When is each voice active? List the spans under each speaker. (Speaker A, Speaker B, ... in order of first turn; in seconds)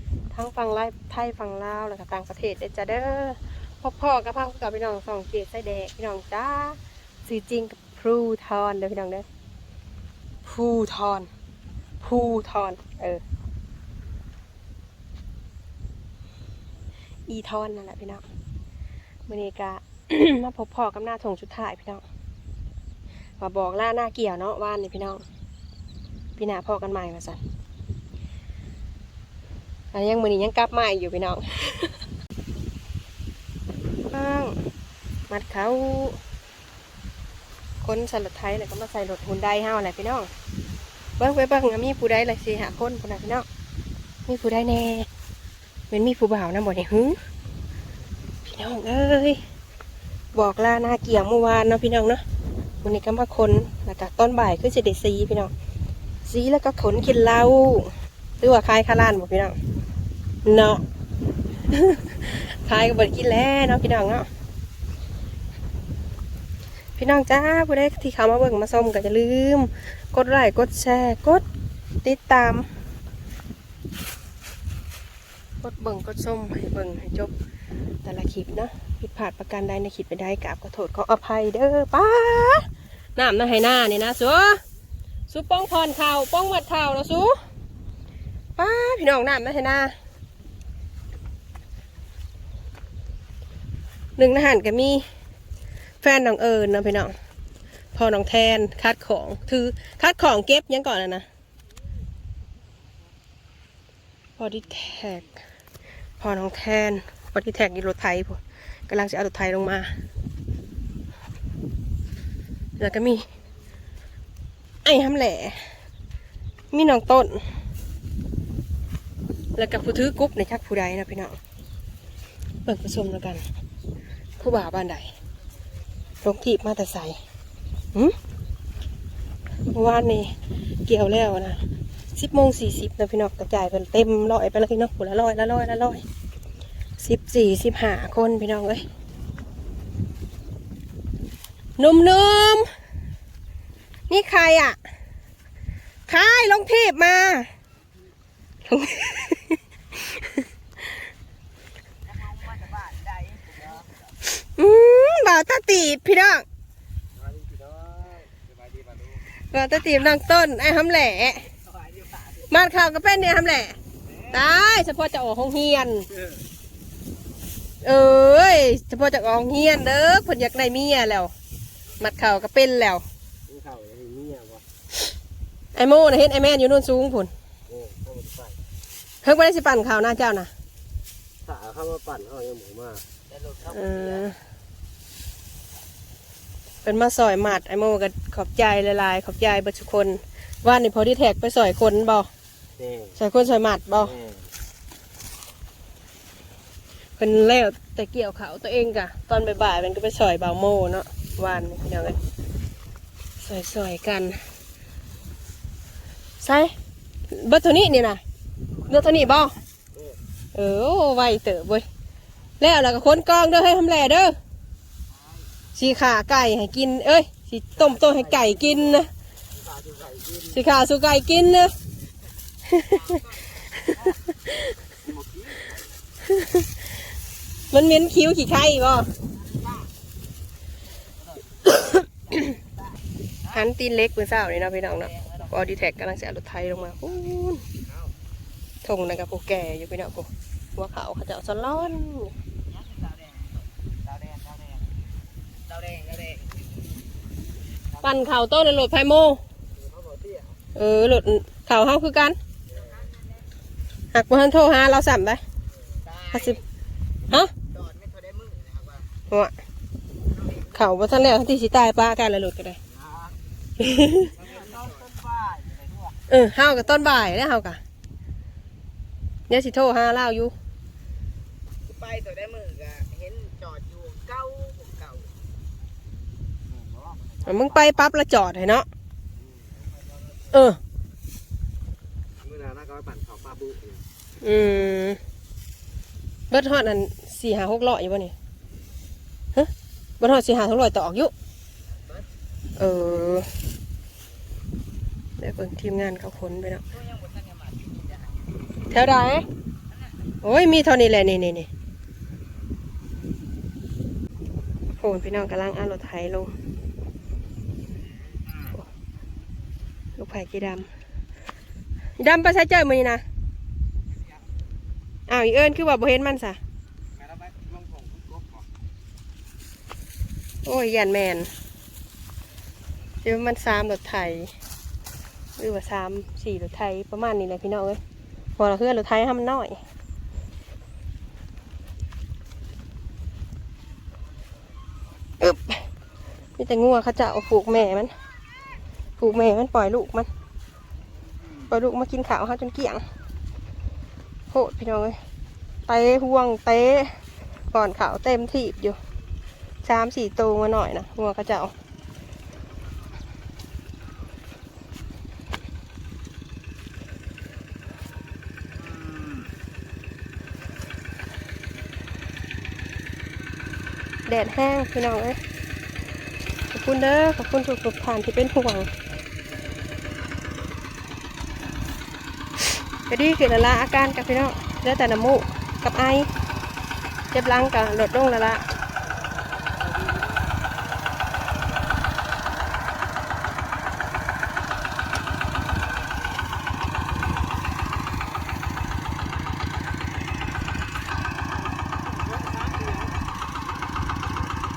Speaker A: 0.3-9.2, 10.5-11.3, 12.0-13.2, 17.3-18.2, 19.3-22.0, 23.4-25.2, 26.4-27.4, 29.9-32.0, 34.1-34.5, 35.3-36.2, 37.8-40.3, 41.2-43.5, 44.3-45.1, 45.9-47.2, 48.5-49.4, 50.3-52.2, 52.8-55.5, 56.3-59.5, 60.5-60.8, 61.7-64.3, 67.0-71.4, 72.0-72.7, 75.6-77.3, 78.0-84.6, 85.3-87.4, 88.6-89.9, 94.2-95.0, 96.0-97.1, 97.9-101.2, 104.4-105.4, 106.2-109.9, 112.8-113.2, 114.8-115.6, 116.7-117.4, 119.6-121.4, 122.7-123.4, 124.4-125.1, 126.2-127.2, 129.7-130.3, 130.9-131.6, 132.2-136.0, 137.0-138.8, 141.8-142.7, 144.1-144.8, 146.1-147.5, 148.7-150.3, 154.2-156.4, 159.5-161.5, 162.5-163.8, 164.3-166.1, 167.8-171.3, 172.0-173.0, 175.8-177.3, 179.2-180.5, 183.6-184.4, 186.8-192.3, 193.2-194.2, 197.2-202.2, 203.4-204.4, 206.4-206.7, 207.3-208.2, 208.9-209.6, 210.5-211.8, 212.6-214.3, 215.8-219.1, 220.4-221.7, 222.7-223.2, 223.9-224.7, 226.2-226.7, 227.7-229.1, 231.8-232.4, 233.5-237.6, 238.8-242.3, 248.0-249.4, 250.8-252.4, 254.1-255.4, 256.3-256.6, 260.6-262.8, 263.8-264.3, 266.3-267.8, 269.5-270.5, 277.4-278.9, 280.5-280.8, 284.4-285.2, 286.5-288.3, 289.6-291.3, 292.8-293.5, 295.4-296.8, 298.9-299.5, 300.4-301.7, 305.0-306.5, 310.2-310.9, 312.2-313.2, 315.3-316.6, 320.6-321.5, 323.2-324.5, 325.6-328.0, 328.6-329.8, 335.4-335.8, 336.6-338.1, 339.2-340.3, 341.7-343.0, 344.5-345.2, 345.9-347.1, 347.7-349.0, 349.9-351.7, 364.3-365.4, 366.7-368.9, 373.1-376.3, 377.3-378.6
Speaker B: 152.5-152.8, 157.4-158.3, 173.5-174.6, 177.7-178.5, 181.5-183.1, 219.8-220.3, 245.9-246.3, 264.4-265.5, 272.2-273.3, 282.4-284.0, 317.7-318.1
Speaker C: 257.9-259.0, 273.3-275.2, 392.7-393.1